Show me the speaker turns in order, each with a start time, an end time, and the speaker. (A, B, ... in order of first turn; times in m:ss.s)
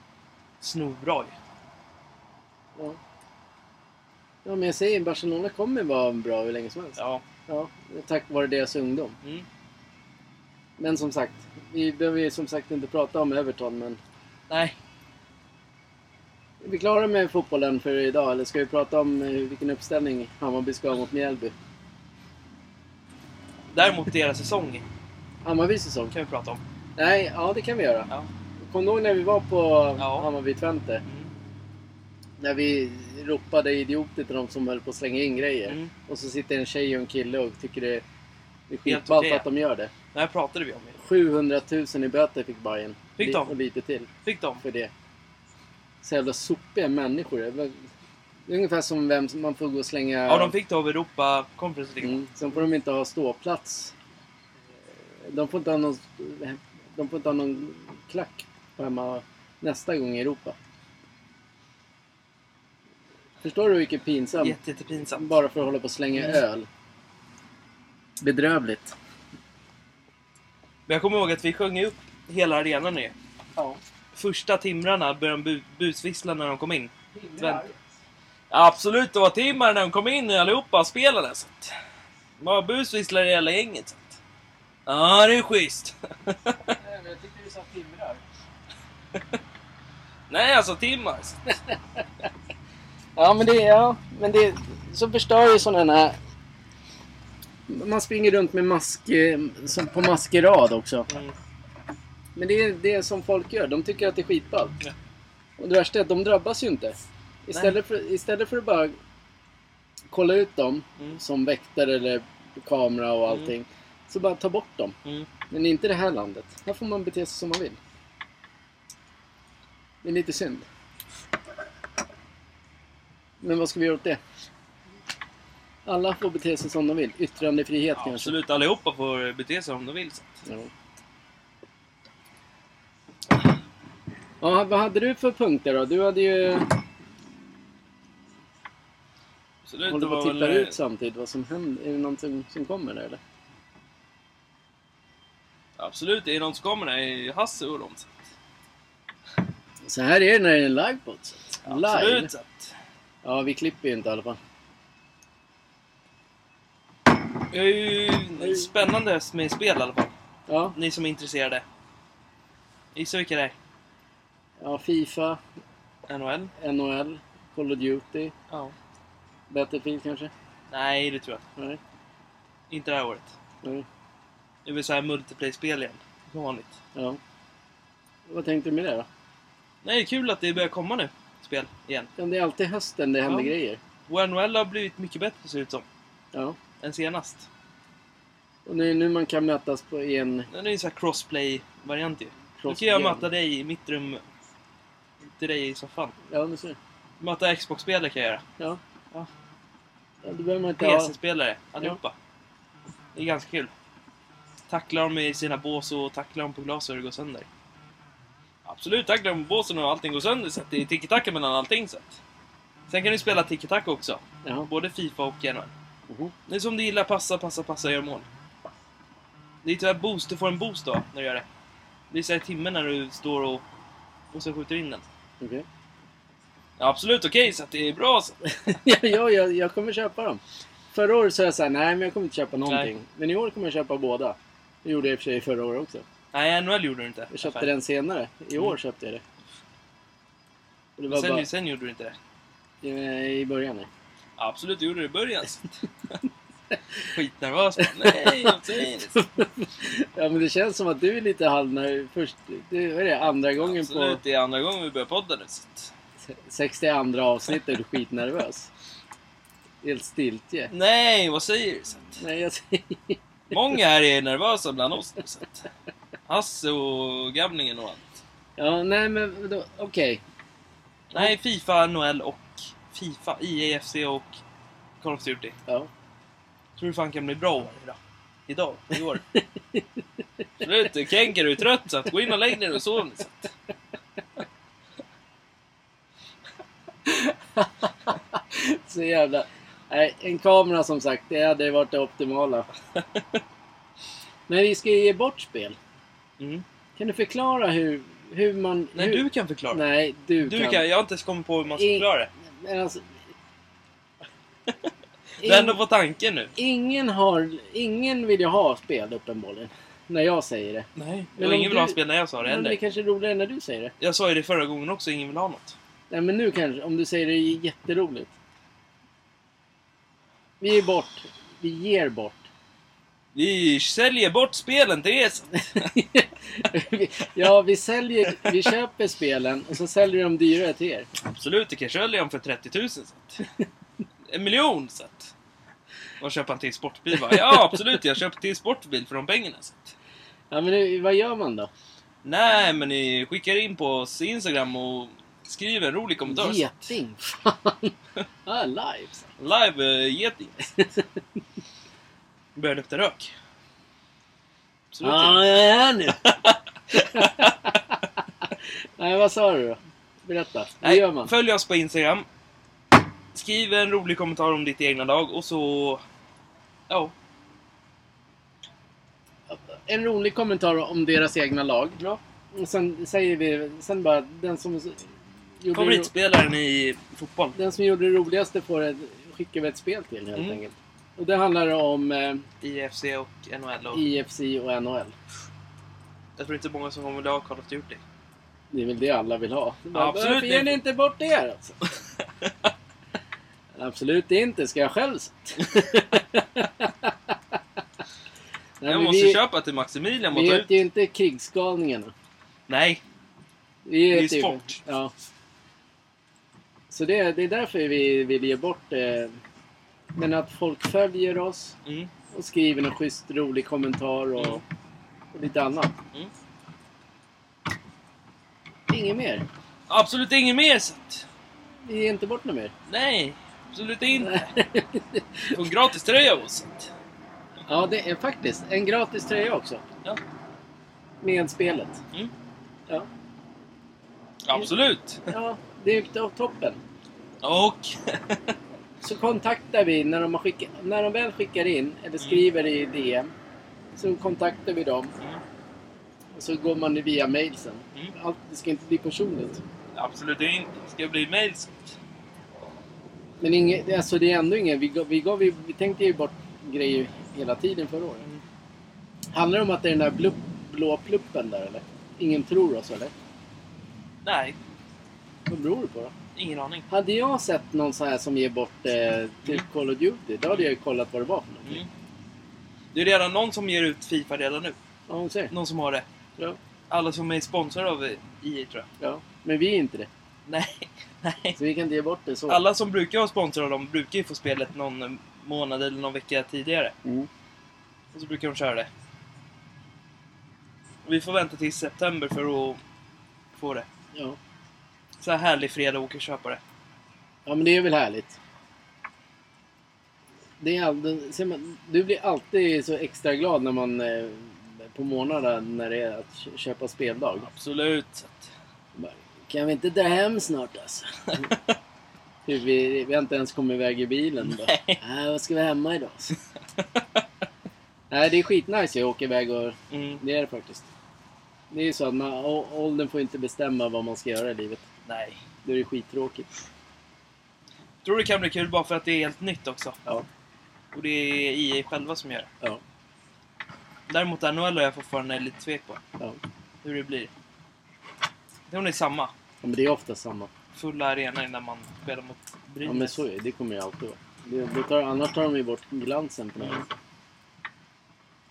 0:00.6-0:01.4 A
0:04.4-0:09.2 B
0:07.0-0:07.2 A
0:10.8-0:14.0 B
0:14.5-0:14.8 A
0:16.6-0:21.5 B
0:23.7-0:24.8 A
0:25.4-0:26.1 B
0:26.1-0:26.6 A
0:27.0-0:28.1 B
0:28.7-0:31.0 B
0:30.0-0:30.3 A
0:32.4-0:38.0 B
0:38.7-0:39.9 B
0:38.8-0:39.4 A
0:40.1-0:41.0 A
0:41.0-0:44.1 B
0:43.2-0:43.5 A
0:44.2-0:44.6 A
0:44.6-0:44.9 B
0:46.0-0:47.8 B
0:48.5-0:50.5 B
0:50.3-0:52.2 A
0:52.0-0:53.9 B
0:55.2-1:00.6 B
1:03.4-1:04.6 B
1:04.4-1:05.3 A
1:05.2-1:06.7 B
1:06.2-1:06.4 A
1:08.2-1:08.9 B
1:10.9-1:13.1 A
1:14.1-1:17.6 A
1:17.1-1:17.8 B
1:18.5-1:21.7 A
1:22.4-1:24.2 A
1:24.8-1:26.8 A
1:26.7-1:28.2 B
1:30.3-1:31.4 A
1:33.2-1:36.1 B
1:37.7-1:41.1 B
1:41.1-1:41.3 A
1:42.4-1:44.8 B
1:45.6-1:48.9 B
1:50.1-1:55.0 B
1:55.5-1:57.8 B
2:00.0-2:00.6 B
2:03.4-2:04.2 B
2:05.8-2:08.3 B
2:08.0-2:10.4 A
2:10.4-2:10.7 B
2:14.4-2:16.8 B
2:19.6-2:20.8 A
2:19.9-2:23.2 B
2:25.8-2:28.2 A
2:29.8-2:32.3 B
2:31.6-2:32.7 A
2:33.2-2:34.4 B
2:37.5-2:40.1 A
2:40.5-2:40.8 B
2:40.7-2:41.6 A
2:42.9-2:43.6 A
2:44.6-2:45.4 B
2:46.1-2:46.5 A
2:46.6-2:48.3 B
2:48.5-2:48.7 A
2:49.5-2:50.3 B
2:50.7-2:51.4 A
2:52.7-2:53.3 A
2:54.6-2:56.8 A
2:58.3-2:59.1 B
2:59.8-3:02.1 A
3:02.2-3:03.8 B
3:03.2-3:03.5 A
3:04.1-3:05.8 A
3:06.8-3:07.5 A
3:08.6-3:10.5 B
3:10.5-3:14.2 A
3:12.6-3:13.3 B
3:15.3-3:16.1 A
3:16.3-3:16.8 B
3:17.2-3:18.4 A
3:20.2-3:21.1 B
3:20.8-3:22.1 A
3:23.1-3:23.7 A
3:24.7-3:27.5 A
3:28.6-3:32.2 A
3:32.9-3:35.7 A
3:36.5-3:38.3 A
3:39.6-3:41.4 A
3:42.1-3:43.6 A
3:44.3-3:45.0 A
3:46.8-3:48.4 A
3:48.6-3:56.0 B
3:52.6-3:52.9 A
3:56.3-3:57.7 A
3:57.3-3:59.2 B
4:01.0-4:01.5 B
4:01.1-4:02.2 A
4:02.8-4:03.9 B
4:04.4-4:06.2 A
4:07.0-4:09.2 A
4:07.8-4:08.6 B
4:09.1-4:14.2 B
4:13.6-4:15.9 A
4:16.3-4:18.7 B
4:19.8-4:20.7 B
4:20.7-4:22.2 A
4:22.2-4:23.2 B
4:23.5-4:25.7 A
4:26.3-4:28.2 A
4:28.6-4:30.2 B
4:31.1-4:34.4 A
4:35.0-4:35.6 A
4:36.8-4:39.2 A
4:39.4-4:39.8 B
4:40.6-4:43.5 A
4:47.0-4:52.7 B
4:54.5-4:55.8 B
4:56.4-4:56.6 A
4:57.0-5:00.8 B
4:58.9-4:59.8 A
5:00.4-5:02.3 A
5:01.7-5:02.1 B
5:02.6-5:03.1 B
5:05.4-5:05.8 B
5:05.4-5:06.5 A
5:06.5-5:13.9 B
5:11.0-5:12.8 A
5:14.0-5:15.8 A
5:16.1-5:18.3 B
5:20.6-5:22.4 B
5:23.3-5:25.9 A
5:25.8-5:31.1 B
5:31.2-5:33.4 A
5:34.3-5:35.3 A
5:36.2-5:39.9 A
5:37.3-5:37.5 B
5:40.5-5:41.7 B
5:42.2-5:46.9 A
5:46.2-5:47.9 B
5:48.4-5:49.3 B
5:49.4-5:50.6 A
5:50.7-5:51.0 B
5:52.6-5:53.3 A
5:54.9-5:55.5 A
5:55.0-5:56.3 B
5:56.2-5:57.5 A
5:56.9-5:58.0 B
5:59.0-6:01.3 B
6:00.8-6:02.2 A
6:03.3-6:06.0 A
6:06.9-6:07.1 A
6:09.5-6:12.0 B
6:12.5-6:16.1 B
6:15.7-6:17.6 A
6:17.6-6:22.5 B
6:20.3-6:20.6 A
6:22.6-6:24.0 A
6:23.9-6:25.1 B
6:26.4-6:28.0 A
6:28.7-6:31.9 B
6:29.9-6:30.8 A
6:32.2-6:32.5 A
6:33.7-6:37.3 B
6:38.8-6:39.4 B
6:38.8-6:40.8 A
6:40.3-6:42.1 B
6:42.7-6:43.0 A
6:43.8-6:45.1 B
6:44.1-6:44.8 A
6:46.9-6:49.4 B
6:50.1-6:51.8 B
6:51.8-6:52.1 A
6:52.3-6:54.6 B
6:54.4-6:54.6 A
6:55.3-6:56.0 B
6:58.9-6:59.4 B
6:59.9-7:01.3 A
7:01.8-7:02.7 B
7:02.9-7:04.5 A
7:04.2-7:05.6 B
7:05.5-7:06.9 A
7:07.7-7:09.8 B
7:11.2-7:12.0 B
7:14.4-7:15.2 A
7:15.2-7:16.8 B
7:17.4-7:18.6 A
7:19.0-7:23.3 B
7:24.0-7:25.1 B
7:26.3-7:29.6 B
7:29.9-7:32.0 A
7:33.4-7:38.2 B
7:39.3-7:43.1 B
7:44.2-7:44.6 A
7:45.5-7:46.1 B
7:46.4-7:46.8 A
7:46.9-7:51.8 B
7:52.9-7:54.8 A
7:55.1-7:55.5 B
7:55.5-7:56.0 A
7:56.9-7:58.9 A
7:59.0-8:00.1 B
8:00.5-8:01.6 A
8:01.6-8:02.6 B
8:02.5-8:06.9 A
8:08.1-8:08.9 A
8:11.0-8:12.8 A
8:13.6-8:13.8 A
8:15.2-8:16.6 A
8:17.4-8:18.4 B
8:20.6-8:27.5 B
8:27.4-8:28.5 A
8:29.0-8:31.5 B
8:32.4-8:36.4 B
8:34.4-8:35.0 A
8:38.1-8:40.9 B
8:39.9-8:40.2 A
8:41.7-8:44.8 B
8:45.0-8:45.4 A
8:45.6-8:46.5 B
8:48.0-8:50.0 A
8:50.9-8:52.5 A
8:54.1-8:56.0 A
8:56.8-8:57.3 A
8:58.7-8:59.3 A
8:59.6-9:00.5 B
9:00.7-9:03.2 A
9:02.8-9:06.8 B